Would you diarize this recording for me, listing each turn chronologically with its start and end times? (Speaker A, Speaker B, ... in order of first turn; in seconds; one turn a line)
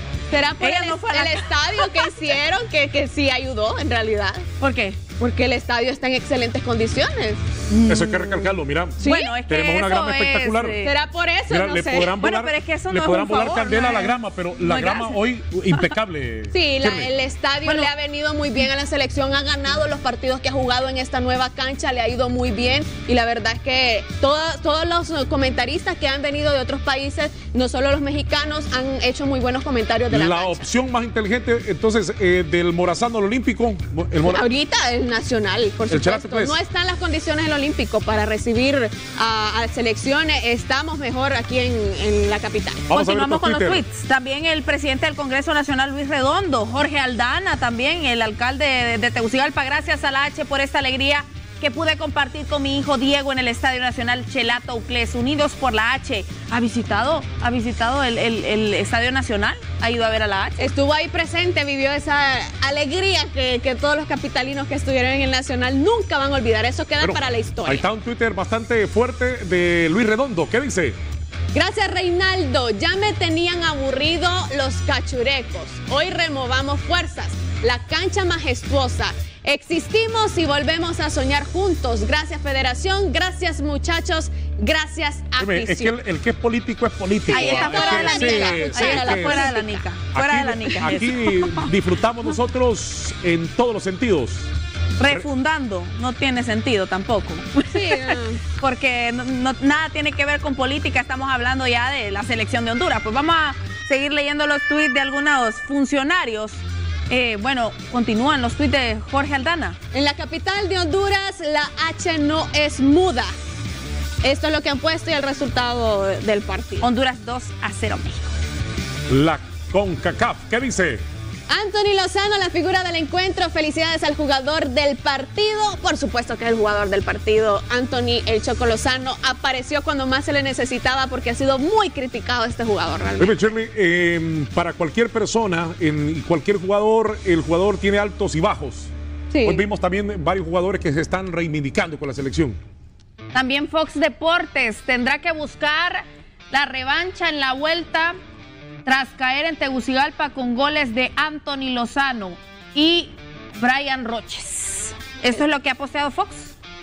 Speaker A: 0.3-4.5
Speaker B: 0.6-1.4
Speaker B: 4.6-5.0
Speaker A: 5.1-8.4
Speaker C: 7.9-10.8
Speaker B: 9.0-10.9
Speaker A: 9.0-9.3
Speaker A: 10.8-12.1
Speaker C: 11.5-17.1
Speaker B: 12.2-15.9
Speaker A: 16.5-30.6
Speaker C: 30.1-34.4
Speaker A: 34.2-42.9
Speaker C: 35.9-36.5
Speaker C: 42.9-43.8
Speaker B: 42.9-60.7
Speaker A: 60.6-67.8
Speaker C: 67.0-71.0
Speaker A: 71.5-85.9
Speaker C: 85.4-94.5
Speaker B: 87.3-91.7
Speaker A: 87.3-89.8
Speaker B: 95.0-109.8
Speaker A: 97.7-98.4
Speaker A: 109.9-113.3
Speaker A: 114.2-116.8
Speaker B: 116.8-118.3
Speaker C: 119.1-121.0
Speaker A: 121.5-133.3
Speaker C: 133.2-138.9
Speaker A: 139.3-139.6
Speaker C: 139.4-142.6
Speaker B: 143.3-148.2
Speaker B: 148.8-156.5